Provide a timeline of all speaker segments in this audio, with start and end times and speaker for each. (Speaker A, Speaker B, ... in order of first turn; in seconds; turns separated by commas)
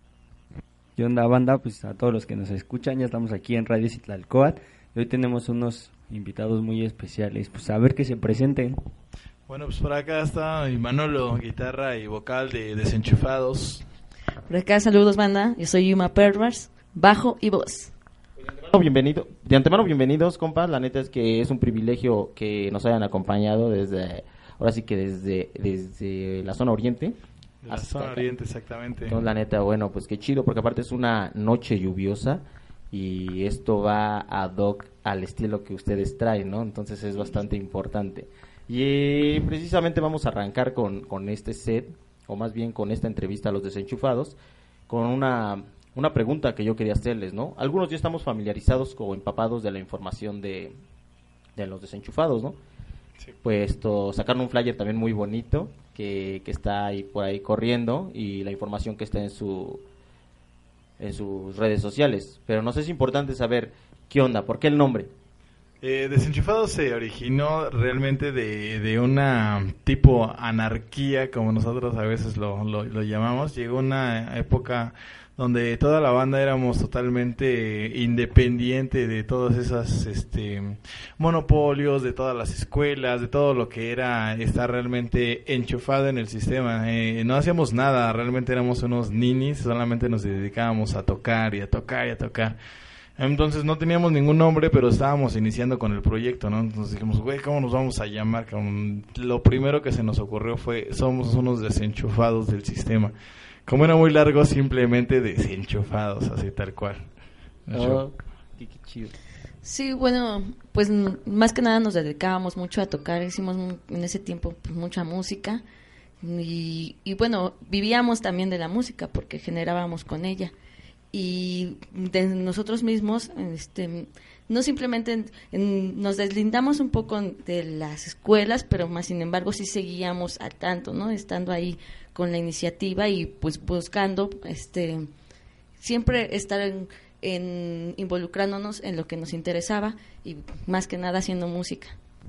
Speaker A: 1.0-8.8, Speaker B: 9.5-13.8, Speaker C: 14.5-17.9, Speaker D: 18.6-27.2, Speaker B: 27.6-29.2, Speaker D: 27.7-28.3, Speaker D: 29.1-44.4, Speaker D: 44.9-50.8, Speaker D: 51.5-52.6, Speaker D: 53.4-59.8, Speaker D: 61.0-65.1, Speaker B: 65.8-92.6, Speaker B: 93.2-103.1, Speaker B: 103.7-107.1, Speaker B: 107.7-108.0, Speaker D: 107.7-109.1, Speaker C: 109.6-115.6, Speaker C: 116.2-120.5, Speaker C: 121.1-135.1, Speaker C: 135.8-141.9